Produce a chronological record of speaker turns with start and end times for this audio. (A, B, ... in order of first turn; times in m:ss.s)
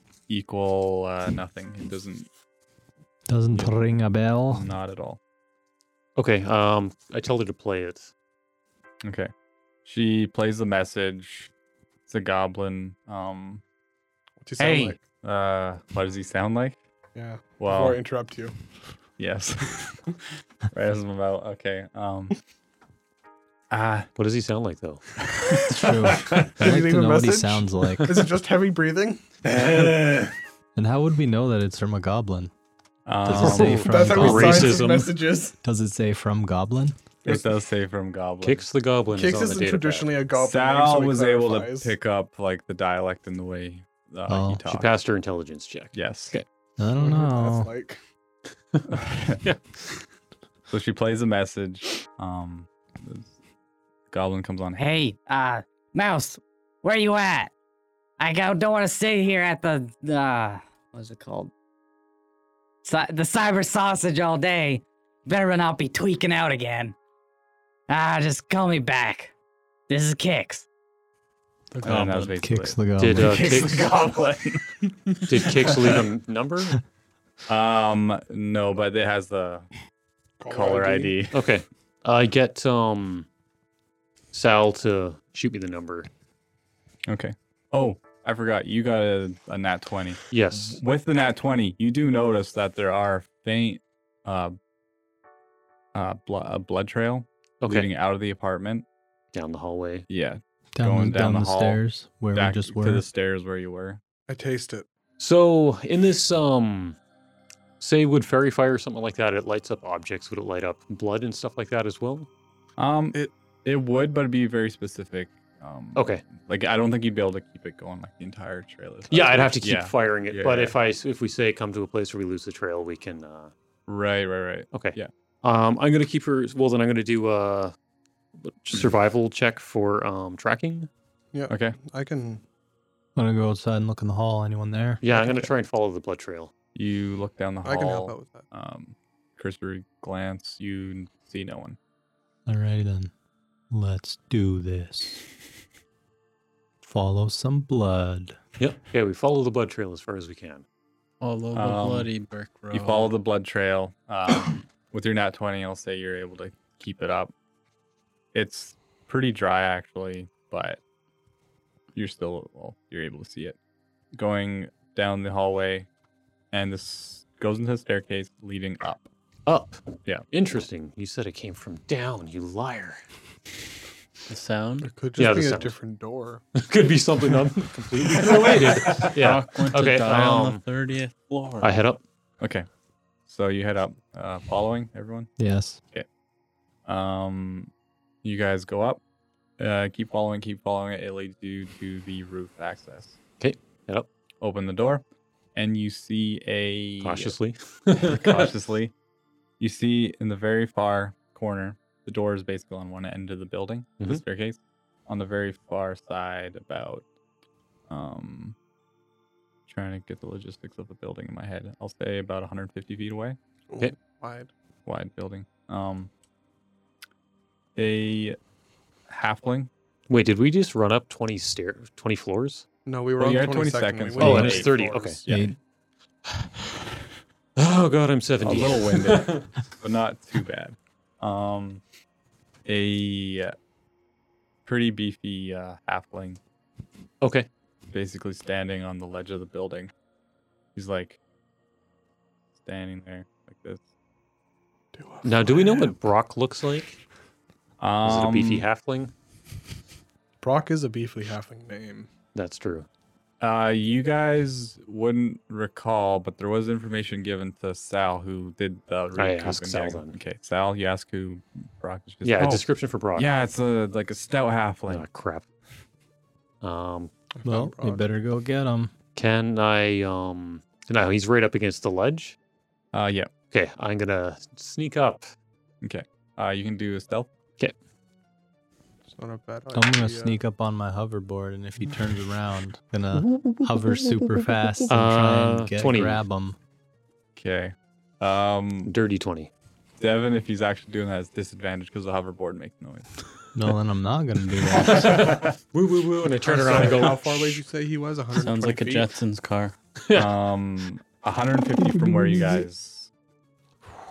0:00.3-0:02.3 A
0:03.3-0:04.7 B
0:04.5-0:05.2 A
0:06.2-0:08.1 C
0:09.0-0:09.3 A
0:09.8-0:11.5 A
0:12.1-0:13.6 A
0:14.4-0:15.0 D
0:14.6-0:14.9 E
0:15.2-0:16.8 A
0:17.1-0:18.6 D
0:17.6-0:18.0 A
0:19.2-0:20.1 A
0:20.7-0:22.4 A
0:23.7-0:24.1 A
0:24.2-0:25.0 C
0:25.2-0:26.5 A
0:25.7-0:28.2 B
0:26.4-0:29.2 D
0:29.4-0:30.3 A
0:30.8-0:32.5 B
0:33.1-0:33.9 A
0:33.2-0:34.8 B
0:33.4-0:35.1 C
0:33.6-0:35.6 D
0:35.6-0:37.0 B
0:37.2-0:38.6 A
0:38.4-0:40.1 C
0:39.1-0:41.9 D
0:40.3-0:44.9 A
0:44.3-0:44.6 B
0:44.7-0:46.4 C
0:45.9-0:46.3 A
0:46.8-0:47.7 B
0:47.0-0:48.0 D
0:48.9-0:49.4 A
0:49.4-0:49.9 C
0:50.7-0:53.3 A
0:54.1-0:54.8 A
0:54.8-0:57.5 E
0:58.2-1:01.5 E
1:02.8-1:07.0 E
1:07.9-1:09.3 E
1:09.9-1:10.6 E
1:11.7-1:12.4 F
1:11.8-1:14.9 A
1:12.4-1:13.5 B
1:13.0-1:14.0 C
1:15.3-1:16.8 C
1:17.5-1:19.7 A
1:20.4-1:21.2 D
1:20.5-1:21.4 A
1:21.3-1:23.3 C
1:24.3-1:26.1 C
1:27.1-1:30.2 A
1:30.3-1:30.8 C
1:30.7-1:34.6 A
1:35.9-1:38.9 A
1:37.6-1:37.9 C
1:39.3-1:40.1 C
1:40.1-1:41.8 A
1:40.7-1:43.0 B
1:42.3-1:44.0 A
1:44.3-1:44.9 D
1:45.2-1:47.0 C
1:47.8-1:52.3 C
1:52.8-2:00.8 A
1:56.0-1:56.2 C
1:59.1-2:03.5 C
2:03.9-2:05.1 A
2:04.7-2:07.7 C
2:08.4-2:10.9 C
2:11.3-2:12.4 D
2:11.5-2:11.8 A
2:13.2-2:15.0 B
2:15.0-2:16.5 C
2:16.7-2:21.8 A
2:17.6-2:18.5 D
2:22.4-2:23.1 B
2:23.7-2:25.2 B
2:26.8-2:28.4 B
2:28.6-2:30.6 C
2:31.2-2:33.1 F
2:31.5-2:32.1 A
2:32.7-2:37.3 A
2:38.3-2:40.8 A
2:41.9-2:43.6 A
2:44.1-2:45.9 A
2:46.5-2:49.1 A
2:49.4-2:53.0 C
2:54.3-2:54.9 F
2:54.8-2:56.4 D
2:55.2-2:55.8 C
2:56.6-3:00.6 C
2:58.8-3:01.7 F
3:01.6-3:02.0 C
3:02.4-3:02.6 A
3:03.3-3:05.3 A
3:05.4-3:05.8 B
3:06.9-3:07.7 A
3:08.2-3:09.0 A
3:09.6-3:13.2 A
3:13.4-3:14.1 C
3:14.4-3:15.0 A
3:15.6-3:17.4 A
3:17.0-3:18.5 C
3:18.0-3:18.9 A
3:19.6-3:27.1 A
3:27.9-3:28.6 A
3:29.7-3:33.4 A
3:33.7-3:34.5 D
3:34.9-3:36.1 A
3:37.8-3:38.4 A
3:39.1-3:39.7 A
3:40.1-3:42.6 C
3:42.9-3:45.3 D
3:43.2-3:45.5 A
3:44.2-3:45.2 C
3:45.3-3:45.6 B
3:47.6-3:49.5 C
3:48.4-3:51.8 A
3:52.6-3:53.6 A
3:54.6-3:56.4 A
3:57.2-3:57.5 C
3:57.9-3:59.9 A
4:00.7-4:01.2 A
4:02.6-4:03.8 A
4:04.9-4:05.9 D
4:05.2-4:07.0 C
4:07.8-4:08.6 A
4:08.0-4:09.1 C
4:10.4-4:12.1 D
4:12.4-4:12.9 C
4:13.4-4:25.1 A
4:19.2-4:20.2 C
4:22.2-4:23.3 C
4:24.9-4:25.4 C
4:26.6-4:27.1 C
4:27.4-4:28.1 D
4:27.4-4:28.9 B
4:29.2-4:32.4 C
4:32.9-4:33.3 A
4:33.5-4:35.3 C
4:35.8-4:37.3 A
4:39.1-4:40.4 D
4:39.7-4:46.6 B
4:43.3-4:43.7 A
4:44.9-4:46.2 C
4:47.4-4:48.9 A
4:48.9-4:49.5 C
4:50.0-4:53.1 A
4:53.5-4:55.2 B
4:54.8-4:57.6 C
4:55.0-4:55.5 A
4:56.4-4:59.2 D
4:58.4-4:59.8 F
5:00.1-5:03.1 A